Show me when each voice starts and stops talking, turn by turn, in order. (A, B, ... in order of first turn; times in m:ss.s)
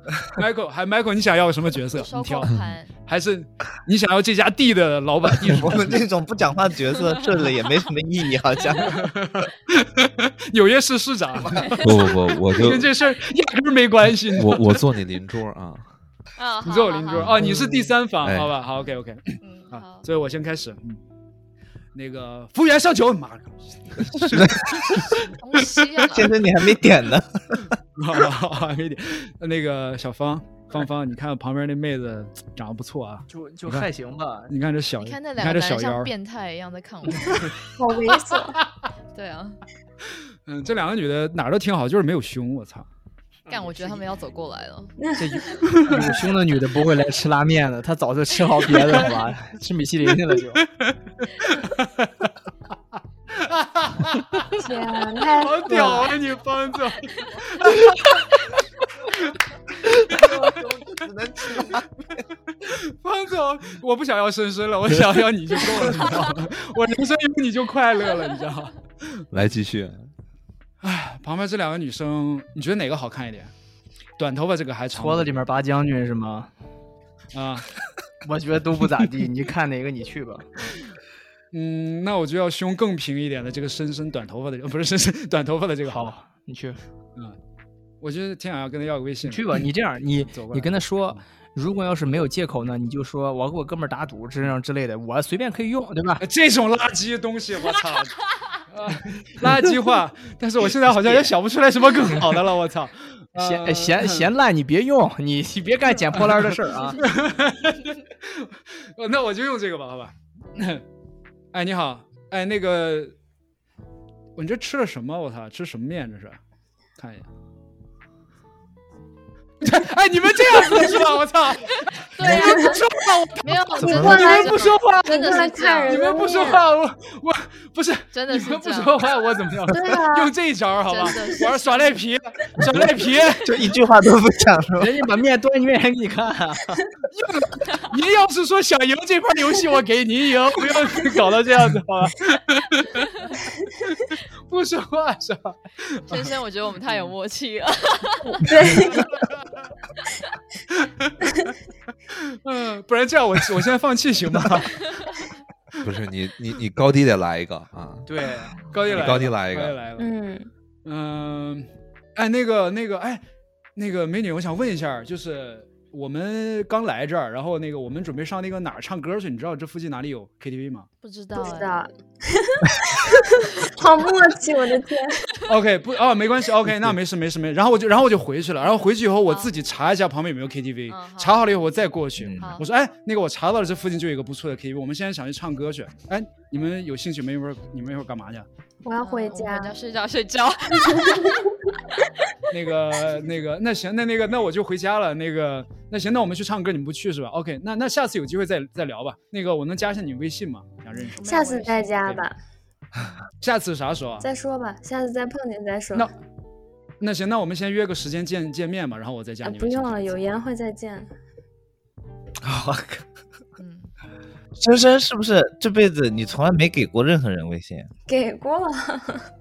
0:00.4-0:06.0 A
0:01.9-0:02.9 B
0:05.4-0:09.1 C
0:08.8-0:12.0 A
0:11.6-0:11.8 B
0:11.8-0:12.9 D
0:12.5-0:14.8 A
0:14.3-0:15.9 D
0:16.4-0:17.4 B
0:16.6-0:21.0 A
0:17.4-0:17.9 C
0:18.2-0:18.5 D
0:18.8-0:20.1 B
0:21.9-0:25.3 A
0:24.3-0:25.2 C
0:25.3-0:26.3 B
0:26.1-0:27.8 C
0:28.0-0:33.9 A
0:33.3-0:34.5 E
0:34.5-0:36.1 A
0:35.0-0:37.5 B
0:37.2-0:37.6 A
0:37.8-0:38.6 F
0:39.1-0:39.6 B
0:40.5-0:42.9 A
0:43.5-0:44.0 E
0:43.5-0:44.9 B
0:45.0-0:45.6 F
0:45.2-0:50.6 E
0:45.6-0:46.1 A
0:48.8-0:49.1 A
0:50.6-0:52.3 A
0:53.3-0:54.6 A
0:54.6-0:56.1 F
0:55.4-0:59.4 A
0:59.9-1:00.6 A
1:00.1-1:01.9 C
1:02.6-1:09.2 A
1:09.3-1:10.1 D
1:10.8-1:13.5 A
1:14.2-1:15.3 A
1:14.9-1:16.5 E
1:17.3-1:17.7 A
1:18.2-1:20.5 E
1:21.5-1:26.0 A
1:25.9-1:26.8 E
1:28.0-1:29.6 A
1:29.3-1:36.2 E
1:30.2-1:31.2 A
1:36.2-1:38.2 A
1:38.7-1:44.3 A
1:40.9-1:41.3 E
1:42.1-1:42.4 E
1:43.4-1:47.0 E
1:46.1-1:50.8 A
1:51.5-1:53.1 A
1:54.4-1:56.4 A
1:57.0-1:57.3 A
1:59.6-2:05.4 A
2:02.1-2:02.8 B
2:02.3-2:02.8 F
2:03.4-2:06.1 B
2:03.8-2:04.2 C
2:03.8-2:06.6 F
2:05.9-2:13.5 A
2:08.1-2:09.1 B
2:09.7-2:10.3 F
2:10.9-2:11.9 B
2:12.6-2:12.9 C
2:13.4-2:14.9 C
2:14.8-2:16.8 E
2:17.1-2:26.3 A
2:26.1-2:28.4 B
2:28.4-2:29.1 F
2:29.0-2:29.6 A
2:30.7-2:31.2 A
2:32.1-2:35.2 A
2:35.8-2:38.1 D
2:38.1-2:38.6 E
2:38.6-2:40.1 A
2:38.9-2:39.8 D
2:40.0-2:40.5 F
2:40.8-2:43.2 A
2:43.8-2:50.9 A
2:51.0-2:51.8 B
2:51.4-2:55.4 F
2:55.4-3:08.5 A
2:58.6-2:59.5 B
3:00.9-3:01.4 B
3:02.2-3:02.5 C
3:02.4-3:02.7 B
3:08.8-3:09.7 F
3:09.0-3:11.5 B
3:10.9-3:11.5 F
3:12.5-3:21.2 A
3:21.1-3:22.1 B
3:21.2-3:22.4 F
3:23.4-3:24.2 A
3:24.2-3:26.1 F
3:27.0-3:30.2 A
3:29.4-3:31.1 F
3:32.4-3:33.1 C
3:33.6-3:33.9 B
3:34.6-3:37.9 C
3:38.1-3:39.3 F